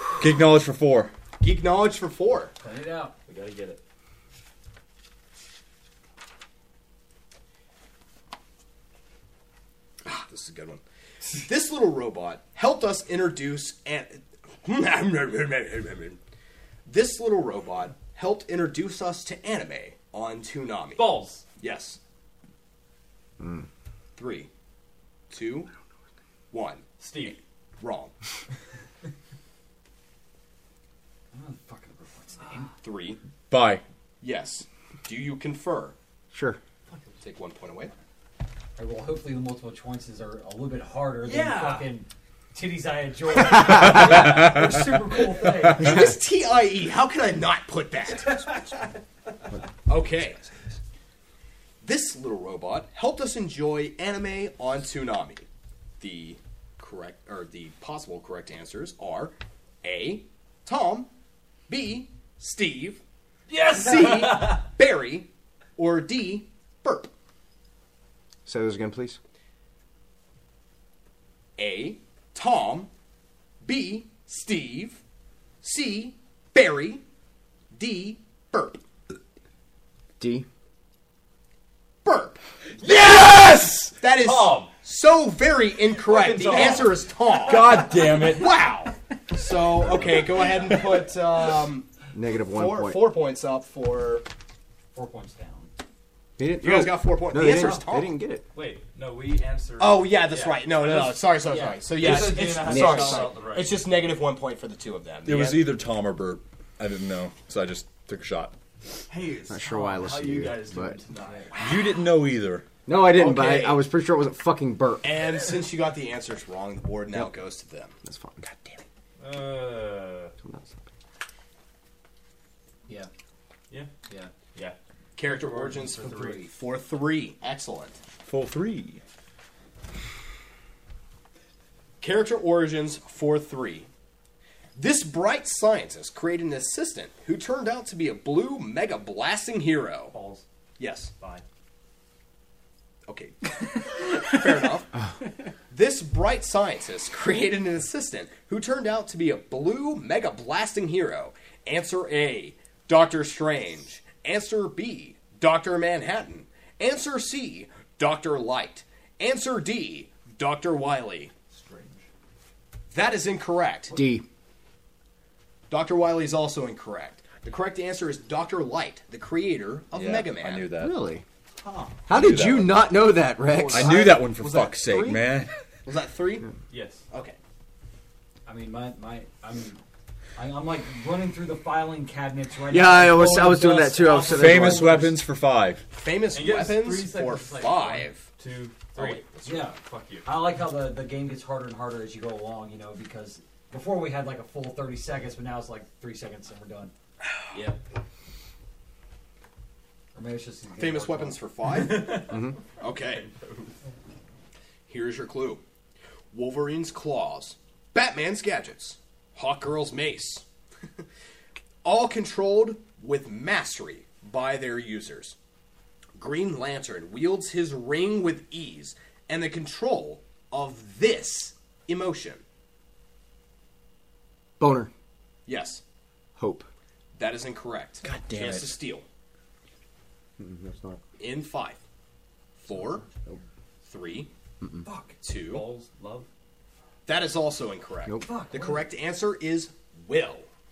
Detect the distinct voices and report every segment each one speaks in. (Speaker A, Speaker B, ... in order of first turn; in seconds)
Speaker A: 0.2-1.1, 33.5-33.8, 82.8-84.0, 87.4-88.6, 105.2-108.5, 111.6-112.6, 128.2-129.0, 169.9-171.0, 172.1-172.9, 173.7-175.5, 184.2-185.8, 228.0-228.8
Speaker B: 1.4-2.5, 10.1-16.2, 16.9-22.0, 24.1-24.5, 25.3-25.7, 26.5-28.1, 32.8-33.2, 34.2-36.0, 37.2-37.9, 45.7-48.6, 49.9-50.5, 51.8-55.5, 56.0-61.1, 61.7-63.0, 63.7-67.1, 71.6-72.9, 73.6-75.0, 75.6-77.0, 77.7-78.8, 82.0-82.4, 84.0-92.0, 92.5-94.2, 96.6-98.2, 99.8-105.7, 111.5-111.8, 113.1-113.8, 115.0-117.9, 125.2-128.0, 132.0-133.9, 134.8-140.2, 140.8-141.1, 143.1-145.0, 145.7-161.3, 162.9-164.0, 165.7-170.7, 173.5-175.2, 175.9-176.5, 177.1-177.4, 185.9-188.3, 188.9-189.7, 200.8-203.3, 204.9-205.6, 206.3-210.4, 211.8-215.4, 216.2-222.4, 225.4-225.8, 227.2-229.1, 231.2-231.8, 232.6-233.1, 233.8-234.3, 235.2-235.7, 237.1-240.5
Speaker C: 2.6-3.1, 31.3-32.7, 38.8-46.0, 94.9-95.7, 97.4-97.8, 101.5-102.1, 126.0-126.4, 178.4-179.8, 180.4-185.2, 189.4-196.9, 200.1-201.4, 234.9-235.1, 238.2-238.8
Speaker D: 3.1-3.8, 20.9-21.5, 27.0-27.4, 36.9-37.2, 41.2-41.9, 63.5-64.6, 84.2-84.7, 86.0-87.6, 98.5-103.8, 109.1-111.6, 119.2-120.3, 123.7-126.4, 140.1-140.4, 141.1-141.4, 161.5-162.1, 171.6-172.0, 176.7-177.1, 186.3-190.3, 201.7-203.7, 234.9-236.3
Speaker E: 23.4-23.6, 36.3-36.6, 68.5-69.2, 80.2-80.5, 89.8-90.2, 92.1-93.1, 96.4-98.5, 102.0-103.3, 109.5-111.0, 112.9-115.0, 118.0-118.4, 120.4-120.8, 163.9-164.2, 170.7-171.2, 172.1-174.2, 182.7-185.1, 202.2-202.6, 224.6-224.9, 226.4-226.7, 230.4-231.0